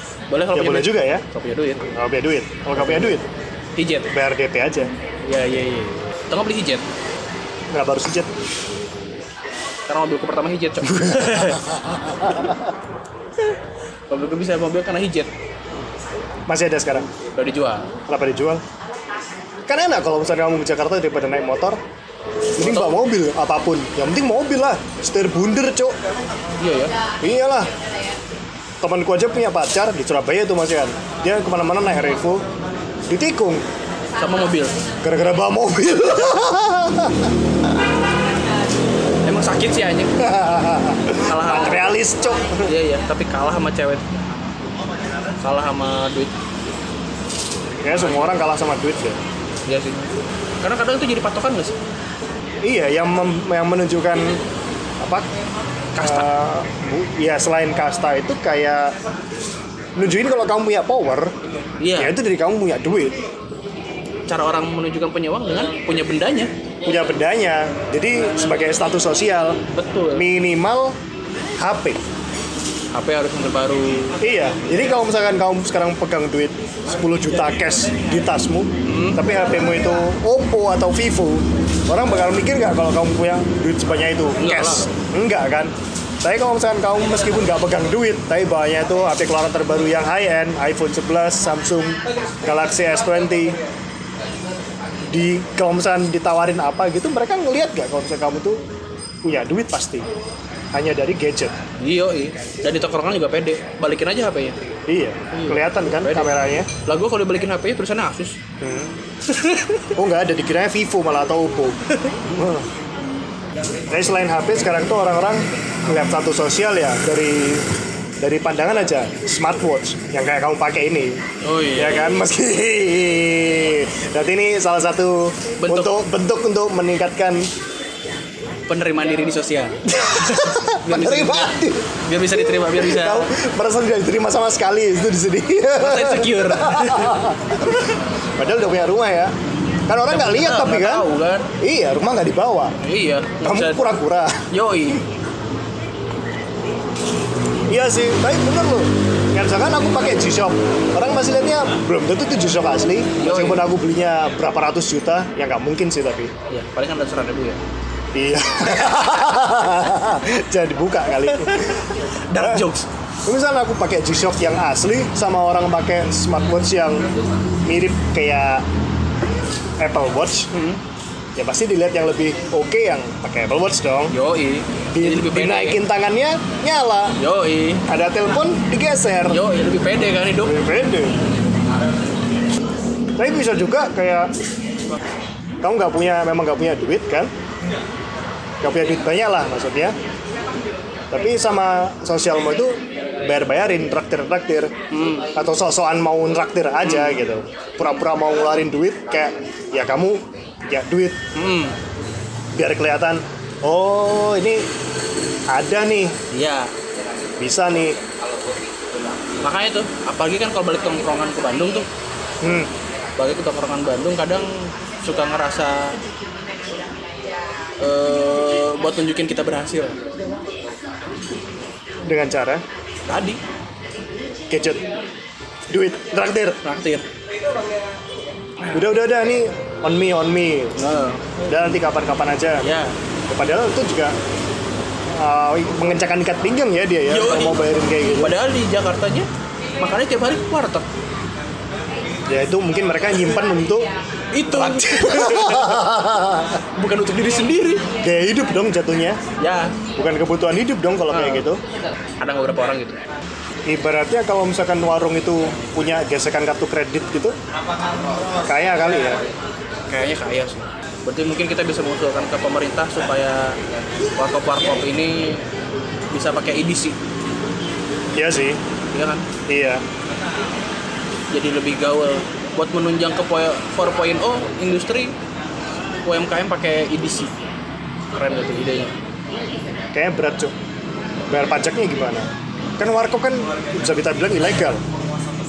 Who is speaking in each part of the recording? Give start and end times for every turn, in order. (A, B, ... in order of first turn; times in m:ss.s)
0:00.3-0:01.9 A
0:00.5-0:01.2 B
0:01.9-0:03.3 B
0:02.8-0:03.1 A
0:03.8-0:04.1 A
0:04.1-0:04.9 B
0:05.2-0:06.8 A
0:07.7-0:08.3 B
0:09.9-0:11.7 A
0:10.8-0:12.7 B
0:14.1-0:15.3 A
0:16.5-0:17.1 B
0:17.3-0:17.8 A
0:18.1-0:18.6 B
0:19.6-0:21.8 B
0:22.6-0:26.0 B
0:22.6-0:23.0 A
0:26.6-0:27.0 A
0:27.2-0:27.7 B
0:28.8-0:32.4 B
0:33.1-0:33.6 B
0:34.2-0:34.8 A
0:35.0-0:37.3 B
0:39.2-0:40.1 A
0:40.2-0:42.7 B
0:41.2-0:42.0 A
0:42.6-0:44.1 A
0:45.4-0:46.3 A
0:47.8-0:49.2 B
0:49.6-0:51.8 A
0:52.6-0:54.4 B
0:55.0-0:55.3 B
0:55.9-0:56.3 A
0:56.0-0:59.0 B
1:00.0-1:01.3 B
1:01.8-1:02.1 A
1:02.0-1:03.2 B
1:04.3-1:06.5 A
1:06.8-1:09.6 B
1:09.7-1:10.2 A
1:10.1-1:11.0 B
1:11.6-1:12.0 B
1:12.9-1:14.2 A
1:14.2-1:33.6 B
1:18.8-1:19.2 A
1:24.4-1:24.9 A
1:35.1-1:38.6 B
1:39.2-1:40.1 B
1:40.7-1:41.5 B
1:41.8-1:44.6 A
1:44.9-1:46.7 B
1:45.3-1:46.3 A
1:46.8-1:48.4 A
1:48.6-1:48.9 B
1:49.3-1:50.0 A
1:49.9-1:51.8 B
1:51.9-1:52.2 A
1:52.3-1:52.7 B
1:53.9-1:57.7 B
1:58.2-2:01.2 B
2:01.4-2:02.2 A
2:01.7-2:07.5 B
2:05.6-2:06.0 A
2:08.7-2:13.3 A
2:09.8-2:17.8 B
2:15.8-2:17.9 A
2:18.4-2:19.3 B
2:19.9-2:21.1 B
2:20.0-2:21.5 A
2:21.6-2:22.7 B
2:22.8-2:23.8 A
2:23.4-2:24.5 B
2:24.5-2:25.0 A
2:27.7-2:36.3 B
2:33.2-2:33.6 A
2:36.5-2:37.6 A
2:38.1-2:42.6 B
2:41.3-2:42.9 A
2:43.2-2:47.0 B
2:47.6-2:48.6 B
2:49.8-2:50.5 B
2:50.5-2:50.8 A
2:51.4-2:54.1 B
2:54.1-2:55.8 A
2:54.9-2:57.2 B
2:57.2-2:57.8 A
2:57.9-2:59.4 B
2:59.3-3:00.6 A
3:00.4-3:01.2 B
3:03.2-3:04.3 B
3:05.6-3:07.3 B
3:08.6-3:10.0 B
3:11.1-3:14.7 B
3:14.9-3:15.3 A
3:15.3-3:21.2 B
3:16.8-3:17.2 A
3:21.3-3:21.8 A
3:22.5-3:24.6 B
3:25.5-3:26.2 B
3:26.3-3:26.7 A
3:27.4-3:28.0 B
3:29.4-3:31.9 A
3:32.4-3:32.7 B
3:33.2-3:36.0 A
3:37.8-3:40.0 A
3:42.0-3:42.6 B
3:43.1-3:43.4 A
3:44.5-3:44.8 B
3:45.7-3:46.6 B
3:46.6-3:47.0 A
3:48.7-3:50.8 B
3:50.8-3:51.2 A
3:51.5-3:52.6 B
3:52.6-3:52.9 A
3:53.3-3:54.1 B
3:55.1-3:58.4 B
3:57.1-3:57.6 A
3:58.1-3:59.3 A
3:59.8-4:00.8 A
4:02.3-4:03.9 B
4:04.3-4:05.8 A
4:04.5-4:06.6 B
4:06.8-4:07.9 A
4:08.0-4:09.2 B
4:09.4-4:09.8 A
4:10.0-4:11.6 B
4:11.1-4:11.4 A
4:12.2-4:13.0 A
4:13.6-4:17.4 B
4:18.4-4:19.2 B
4:19.9-4:23.6 A
4:24.2-4:25.4 A
4:26.1-4:27.0 A
4:28.2-4:28.6 B
4:28.9-4:29.2 A
4:29.5-4:29.8 B
4:31.3-4:35.1 A
4:36.0-4:37.3 A
4:38.1-4:38.9 A
4:39.9-4:40.5 B
4:41.3-4:42.3 B
4:42.8-4:44.8 B